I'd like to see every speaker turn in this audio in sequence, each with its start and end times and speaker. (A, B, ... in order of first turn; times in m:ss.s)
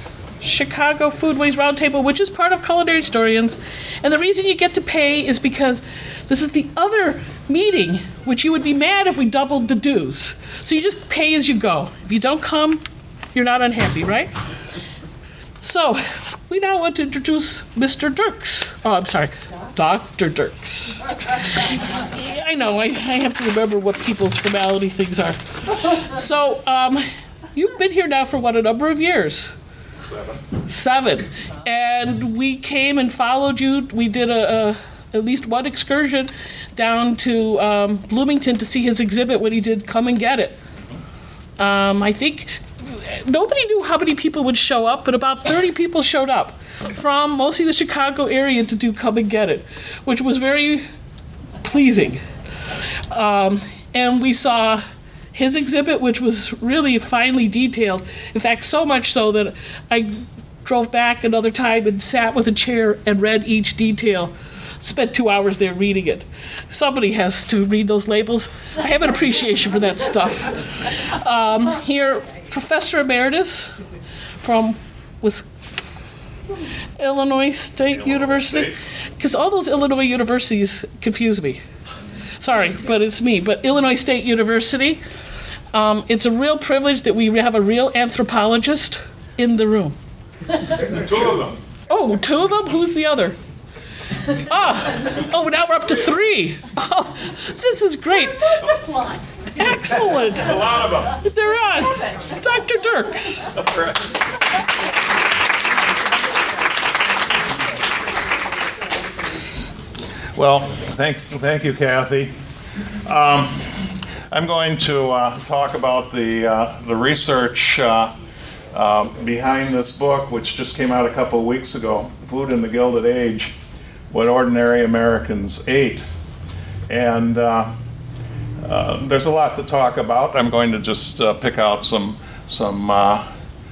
0:00.4-0:12.8 A
0:13.3-0:14.4 A
0:15.6-0:29.5 A
0:30.0-0:30.4 B
0:30.7-0:40.6 A
0:41.6-0:50.8 A
0:51.6-0:52.2 A
0:53.1-0:54.8 A
0:55.3-1:13.8 A
1:14.4-1:15.6 A
1:17.0-1:21.6 A
1:17.9-1:18.7 B
1:22.4-1:25.0 A
1:25.7-1:30.0 A
1:30.8-1:31.6 B
1:31.9-1:33.4 A
1:34.1-1:38.7 A
1:39.5-1:40.6 A
1:40.3-1:41.2 B
1:41.2-1:43.5 A
1:43.5-1:44.1 B
1:50.4-1:52.3 B
1:53.0-1:58.1 B
1:58.7-2:03.5 B
2:04.1-2:06.0 B
2:06.9-2:07.7 B
2:08.6-2:13.2 B